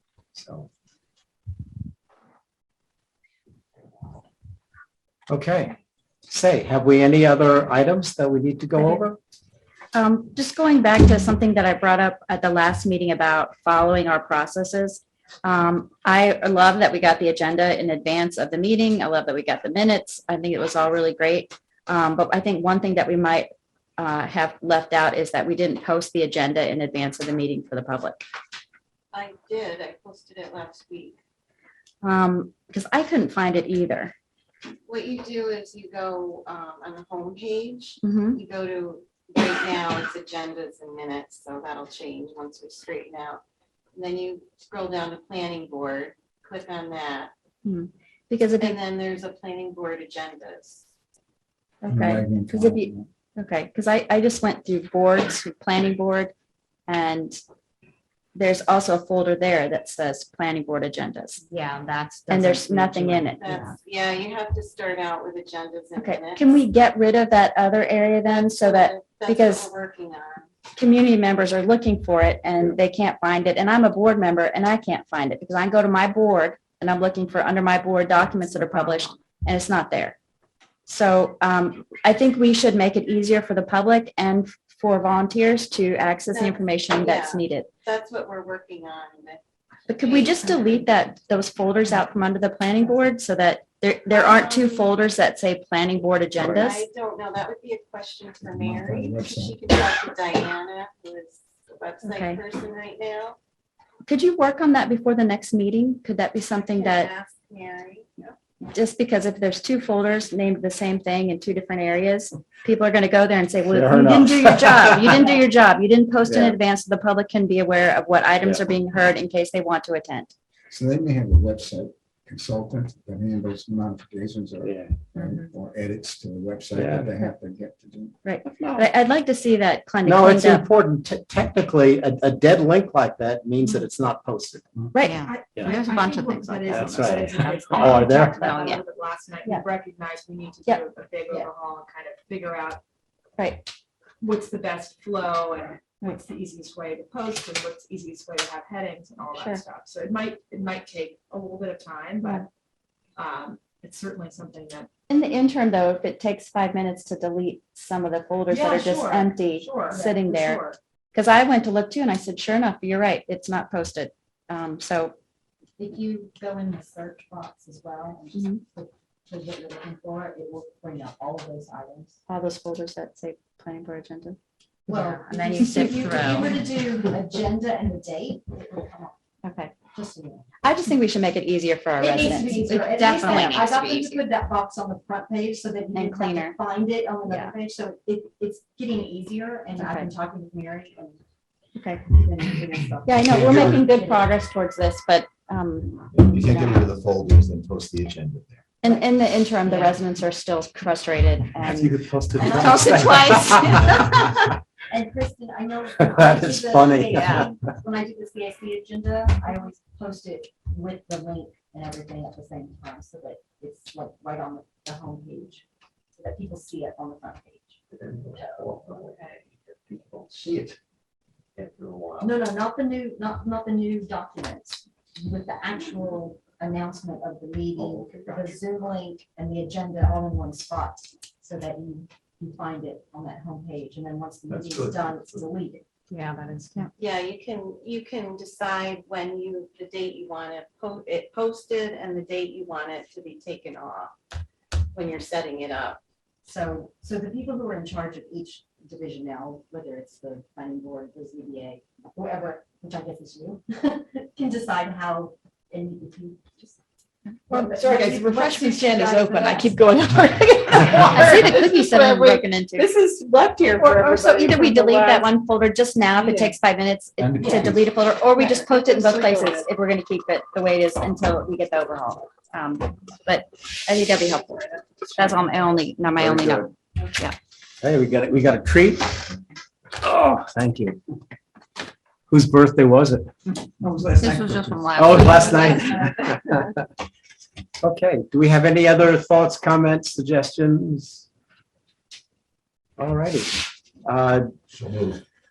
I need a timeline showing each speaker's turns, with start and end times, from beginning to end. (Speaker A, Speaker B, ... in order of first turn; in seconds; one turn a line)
Speaker A: 0.3-0.7
Speaker A: 5.3-5.8
Speaker A: 6.3-9.2
Speaker B: 9.9-28.2
Speaker C: 29.1-31.2
Speaker B: 32.0-34.1
Speaker C: 34.9-43.4
Speaker B: 38.0-38.4
Speaker C: 43.9-47.3
Speaker B: 47.6-48.8
Speaker C: 48.6-50.9
Speaker B: 51.8-56.3
Speaker D: 51.9-53.1
Speaker B: 56.9-57.4
Speaker B: 58.3-61.4
Speaker E: 61.6-63.2
Speaker F: 62.3-63.2
Speaker B: 62.3-63.6
Speaker C: 63.4-66.6
Speaker B: 66.0-69.7
Speaker C: 68.2-70.5
Speaker B: 70.7-80.2
Speaker C: 78.3-79.2
Speaker B: 80.8-87.7
Speaker C: 86.3-89.4
Speaker B: 89.9-96.8
Speaker C: 89.9-90.8
Speaker C: 94.1-94.9
Speaker C: 96.4-103.4
Speaker D: 98.4-99.6
Speaker B: 102.0-102.4
Speaker B: 104.0-107.1
Speaker C: 106.5-108.3
Speaker B: 108.7-120.3
Speaker A: 113.7-115.3
Speaker A: 116.2-116.6
Speaker D: 120.7-128.1
Speaker A: 124.6-124.9
Speaker G: 125.2-125.5
Speaker A: 126.7-127.1
Speaker B: 128.2-130.7
Speaker A: 128.4-128.9
Speaker A: 130.0-134.7
Speaker B: 134.9-136.7
Speaker G: 135.0-142.8
Speaker E: 135.7-136.6
Speaker A: 136.7-138.6
Speaker B: 137.5-138.8
Speaker B: 140.7-141.5
Speaker B: 143.4-143.7
Speaker G: 144.2-152.5
Speaker B: 149.3-149.6
Speaker G: 153.2-154.9
Speaker B: 155.1-165.1
Speaker G: 158.5-160.8
Speaker F: 165.8-172.2
Speaker B: 168.3-168.6
Speaker B: 172.3-176.5
Speaker F: 174.9-179.1
Speaker B: 179.4-179.8
Speaker F: 179.8-180.6
Speaker B: 180.6-184.2
Speaker F: 182.0-191.2
Speaker B: 185.9-186.6
Speaker B: 187.3-187.5
Speaker B: 189.7-190.1
Speaker B: 191.8-192.1
Speaker F: 192.0-194.4
Speaker B: 193.0-196.9
Speaker H: 193.3-193.9
Speaker H: 196.1-198.6
Speaker B: 198.8-203.8
Speaker F: 199.6-200.0
Speaker A: 201.6-203.9
Speaker F: 202.3-215.6
Speaker A: 206.0-207.6
Speaker F: 216.2-217.8
Speaker H: 218.1-219.0
Speaker F: 218.3-218.6
Speaker F: 222.2-235.8
Speaker H: 228.0-228.4
Speaker H: 234.7-235.0
Speaker E: 236.1-236.8
Speaker C: 237.0-244.1
Speaker C: 244.9-246.0
Speaker F: 246.4-256.8
Speaker F: 257.5-259.9
Speaker B: 257.5-263.0
Speaker G: 257.6-258.3
Speaker G: 259.5-260.0
Speaker F: 260.8-261.2
Speaker G: 260.8-265.3
Speaker B: 263.9-277.4
Speaker G: 266.2-266.5
Speaker A: 267.2-267.7
Speaker G: 268.3-269.7
Speaker A: 276.2-276.7
Speaker A: 277.8-279.2
Speaker A: 280.0-281.0
Speaker A: 282.3-286.7
Speaker E: 284.1-285.9
Speaker D: 284.4-284.7
Speaker A: 287.8-291.3
Speaker A: 293.0-294.5
Speaker H: 294.7-295.2